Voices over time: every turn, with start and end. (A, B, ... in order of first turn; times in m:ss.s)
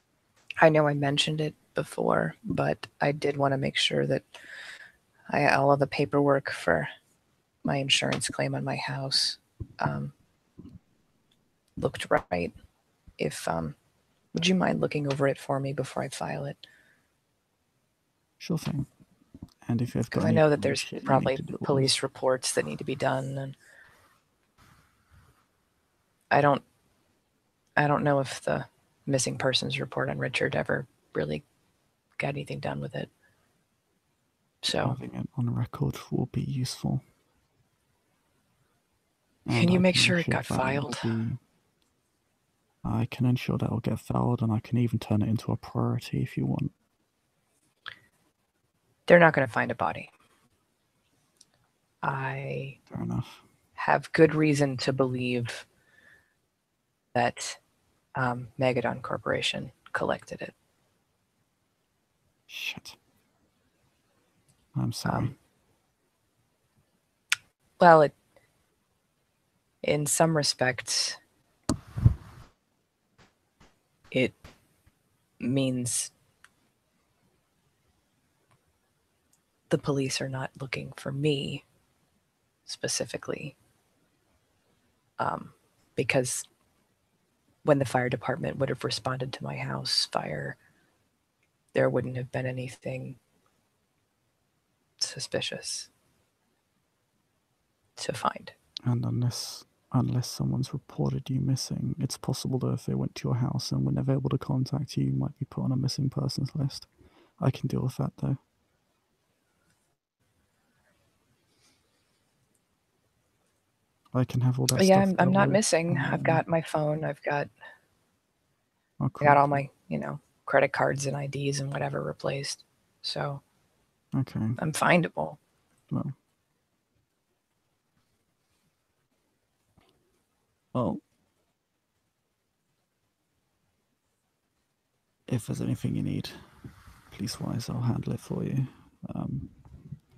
0:00.6-0:04.3 A
0:05.3-0:06.9 A
0:07.6-0:10.1 A
0:11.8-0:12.5 A
0:13.2-0:13.8 A
0:14.3-0:16.6 A
0:18.4-0:18.9 B
0:19.6-0:22.0 B
0:20.1-0:23.6 A
0:26.3-0:26.6 A
0:27.8-0:31.4 A
0:32.2-0:33.1 A
0:34.6-0:35.0 A
0:34.7-0:37.0 B
0:39.4-0:41.4 B
0:39.5-0:41.1 A
0:42.8-0:46.7 B
0:49.1-0:50.1 A
0:52.0-0:52.8 A
0:52.9-0:53.4 B
0:53.8-0:55.6 A
0:57.1-0:57.6 A
0:58.2-1:00.5 A
1:02.5-1:03.0 B
1:04.7-1:05.3 B
1:05.0-1:05.3 A
1:07.8-1:08.1 A
1:09.8-1:11.2 A
1:14.1-1:14.4 A
1:15.4-1:16.1 A
1:19.7-1:21.6 A
1:22.6-1:23.6 A
1:25.2-1:26.5 A
1:27.6-1:30.6 A
1:31.7-1:33.2 A
1:35.0-1:35.9 A
1:38.0-1:38.5 A
1:38.8-1:46.9 B
1:47.4-1:48.4 B
1:54.1-1:56.4 B
1:54.7-1:57.5 A
1:59.0-1:59.6 B
1:59.2-2:03.4 A
2:04.1-2:04.6 B
2:04.6-2:05.4 A
2:10.7-2:11.0 B
2:15.3-2:16.4 B
2:17.1-2:19.5 B